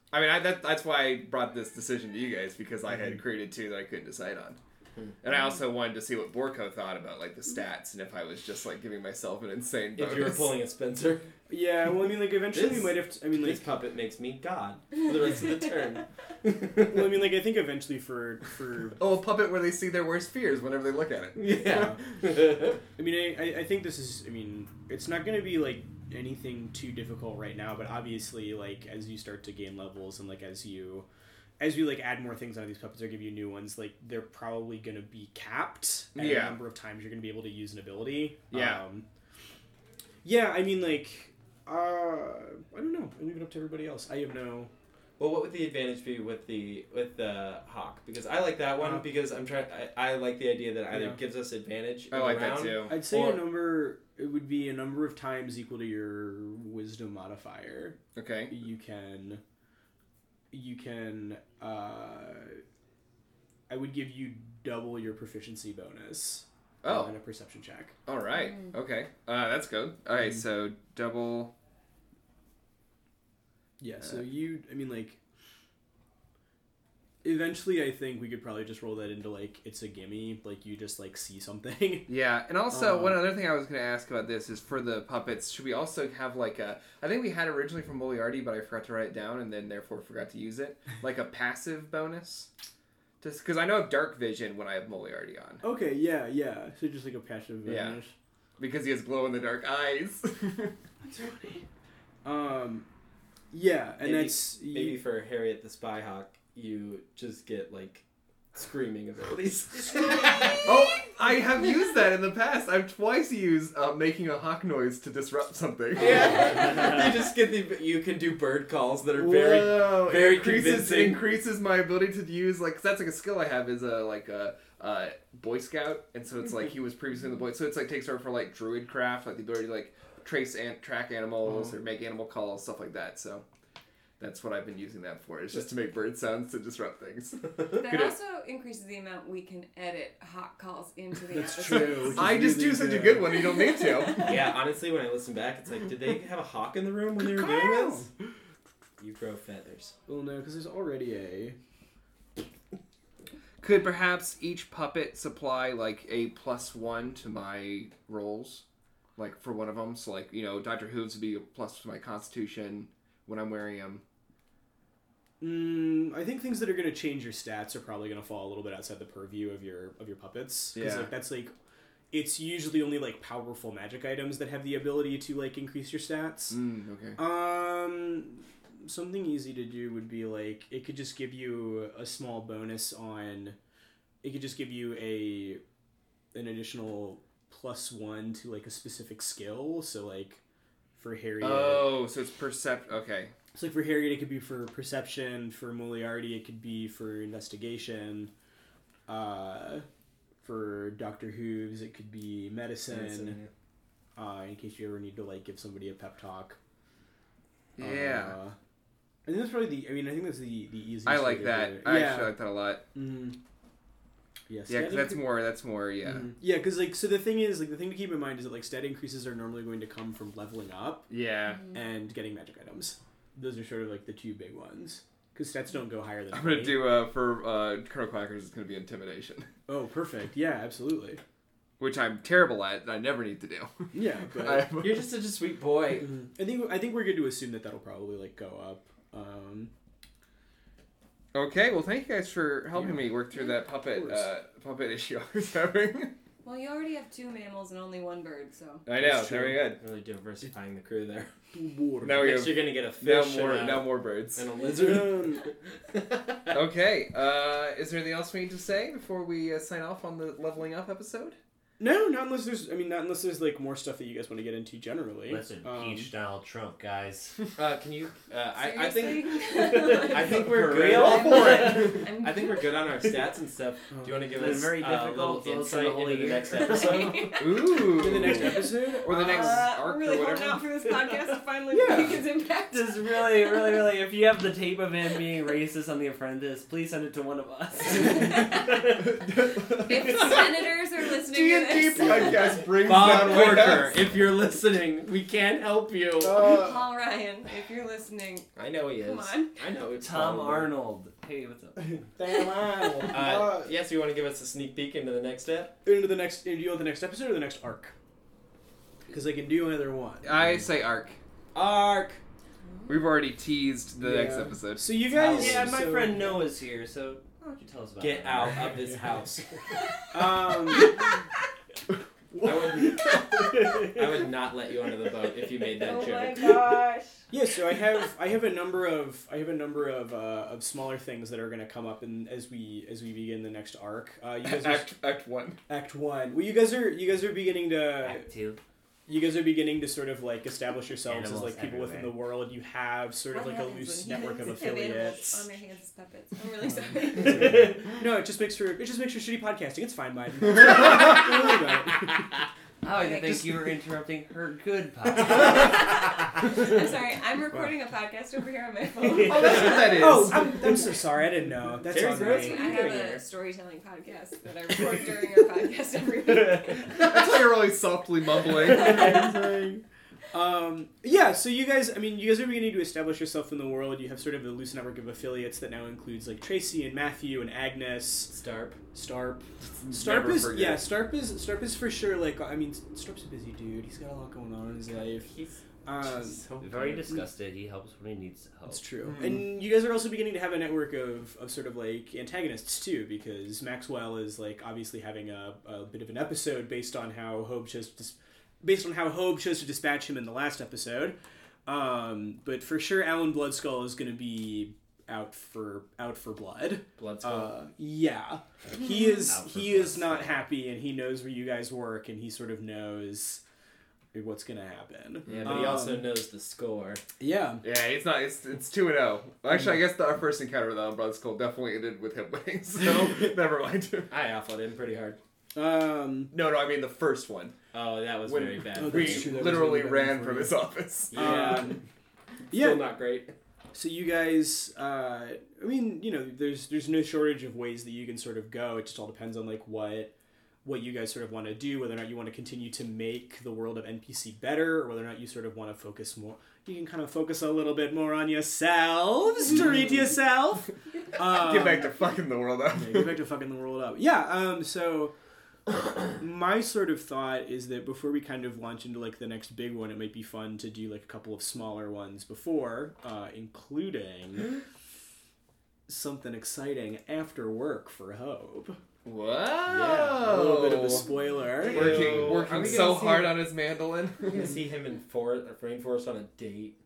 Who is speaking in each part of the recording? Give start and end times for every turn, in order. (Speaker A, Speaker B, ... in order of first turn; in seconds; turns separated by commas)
Speaker A: 0.1-4.6, Speaker A: 5.2-10.6, Speaker B: 10.0-11.3, Speaker C: 11.5-13.7, Speaker B: 12.5-17.2, Speaker C: 16.8-19.0, Speaker A: 19.0-21.8, Speaker B: 21.4-22.8, Speaker C: 21.6-22.0, Speaker C: 23.0-31.1, Speaker C: 31.6-39.0, Speaker A: 36.1-36.6, Speaker A: 38.5-38.8, Speaker C: 40.2-44.7, Speaker B: 45.2-53.5, Speaker C: 48.8-49.1, Speaker C: 50.9-51.2, Speaker A: 52.1-52.9, Speaker C: 52.9-58.0, Speaker A: 58.2-58.5, Speaker C: 58.5-59.4, Speaker C: 60.5-62.6, Speaker C: 63.7-68.0, Speaker A: 66.8-67.1, Speaker A: 68.1-71.5, Speaker C: 73.8-75.2, Speaker C: 77.2-82.1, Speaker A: 82.1-92.5, Speaker C: 82.7-83.2, Speaker A: 93.2-95.6, Speaker C: 95.6-98.1, Speaker A: 97.7-98.0, Speaker A: 98.6-100.7, Speaker C: 101.0-101.7, Speaker C: 102.2-102.9, Speaker C: 103.5-105.0, Speaker B: 104.0-110.7, Speaker A: 110.6-116.6, Speaker B: 116.0-121.2, Speaker A: 119.2-133.4, Speaker A: 134.2-138.1, Speaker D: 137.7-142.4, Speaker C: 141.3-143.4, Speaker A: 141.7-144.3, Speaker D: 143.6-144.3, Speaker B: 144.2-148.1, Speaker C: 147.2-148.1, Speaker B: 149.0-149.9, Speaker C: 150.1-151.6, Speaker A: 153.6-158.6, Speaker A: 159.2-164.0, Speaker C: 165.4-171.5, Speaker A: 170.8-171.1, Speaker C: 172.1-176.6, Speaker A: 176.5-177.2, Speaker C: 177.2-183.6, Speaker C: 184.2-185.6, Speaker C: 186.3-190.4, Speaker C: 191.0-192.0, Speaker A: 191.4-193.3, Speaker C: 193.6-198.3, Speaker C: 199.1-199.9, Speaker C: 200.4-203.4, Speaker B: 202.9-203.5, Speaker C: 204.2-206.6, Speaker A: 207.8-208.4, Speaker C: 207.8-208.6, Speaker C: 209.3-212.4, Speaker A: 211.1-212.8, Speaker C: 212.9-213.4, Speaker C: 214.5-215.2, Speaker A: 214.7-216.3, Speaker C: 216.1-221.1, Speaker A: 221.1-221.7, Speaker C: 221.7-226.9, Speaker A: 226.3-229.5, Speaker C: 229.7-231.2, Speaker A: 231.8-235.1, Speaker C: 233.9-234.7, Speaker B: 234.7-236.1, Speaker C: 236.0-239.7, Speaker A: 241.3-246.1, Speaker C: 243.9-244.3, Speaker D: 246.4-248.8, Speaker A: 248.9-249.8, Speaker C: 249.0-249.6, Speaker B: 249.8-251.3, Speaker C: 251.5-252.4, Speaker A: 252.0-254.5, Speaker B: 252.2-256.6, Speaker C: 254.6-255.4, Speaker A: 256.5-261.4, Speaker C: 261.8-266.1, Speaker E: 265.3-267.4, Speaker B: 267.6-277.3, Speaker D: 268.5-273.2, Speaker E: 269.6-272.0, Speaker C: 273.9-274.3, Speaker E: 274.4-277.3, Speaker D: 276.6-277.9, Speaker A: 277.4-280.7, Speaker C: 277.8-279.4, Speaker D: 278.4-283.7, Speaker E: 280.9-281.4, Speaker C: 281.7-282.2, Speaker E: 282.7-289.2, Speaker D: 288.0-288.6, Speaker A: 289.5-290.4, Speaker D: 289.8-292.4, Speaker A: 291.2-294.0, Speaker B: 292.7-296.6, Speaker C: 296.2-296.9, Speaker D: 296.3-299.6, Speaker B: 298.6-300.8, Speaker E: 300.0-301.8, Speaker C: 301.8-303.7, Speaker B: 303.1-305.7, Speaker C: 305.9-307.9, Speaker C: 309.1-310.3, Speaker A: 310.2-311.2, Speaker B: 311.5-312.2, Speaker D: 312.7-313.1, Speaker A: 312.9-315.0, Speaker C: 314.0-316.4, Speaker E: 315.1-318.9, Speaker B: 315.2-315.6, Speaker B: 318.0-319.6, Speaker C: 320.1-320.9, Speaker A: 322.4-323.0, Speaker B: 322.4-326.7, Speaker D: 325.7-327.2, Speaker C: 327.3-335.0, Speaker A: 334.4-335.6, Speaker C: 335.7-338.3, Speaker E: 338.0-338.6, Speaker C: 339.1-345.4, Speaker E: 341.0-342.2, Speaker D: 343.3-347.8, Speaker C: 346.7-352.2, Speaker E: 352.8-355.9, Speaker D: 352.9-353.5, Speaker D: 355.2-360.1, Speaker A: 359.2-360.7, Speaker C: 360.0-362.8, Speaker B: 361.8-363.2, Speaker D: 362.1-367.1, Speaker A: 366.9-369.1, Speaker C: 368.7-378.3, Speaker D: 368.7-369.2, Speaker B: 378.3-378.8, Speaker C: 378.9-385.3, Speaker A: 379.8-380.9, Speaker B: 384.8-387.2, Speaker C: 385.9-386.4, Speaker E: 386.6-388.8, Speaker C: 388.7-413.4, Speaker A: 389.0-389.4, Speaker B: 407.0-407.6, Speaker E: 408.7-410.4, Speaker C: 414.1-416.1, Speaker B: 415.3-417.0, Speaker A: 415.3-415.7, Speaker C: 417.2-417.6, Speaker A: 417.6-424.1, Speaker B: 424.1-425.2, Speaker C: 425.6-426.3, Speaker A: 426.3-427.6, Speaker B: 427.7-429.6, Speaker A: 428.2-431.5, Speaker C: 428.8-430.6, Speaker B: 431.1-431.8, Speaker C: 431.1-431.8, Speaker B: 432.5-433.3, Speaker C: 432.5-432.9, Speaker C: 433.7-440.1, Speaker C: 440.6-451.9, Speaker A: 449.5-450.0, Speaker A: 451.2-453.2, Speaker C: 452.7-455.1, Speaker C: 456.1-464.6, Speaker C: 465.9-468.8, Speaker A: 469.1-471.1, Speaker C: 469.7-473.0, Speaker B: 471.6-473.4, Speaker A: 471.6-474.5, Speaker B: 474.3-476.8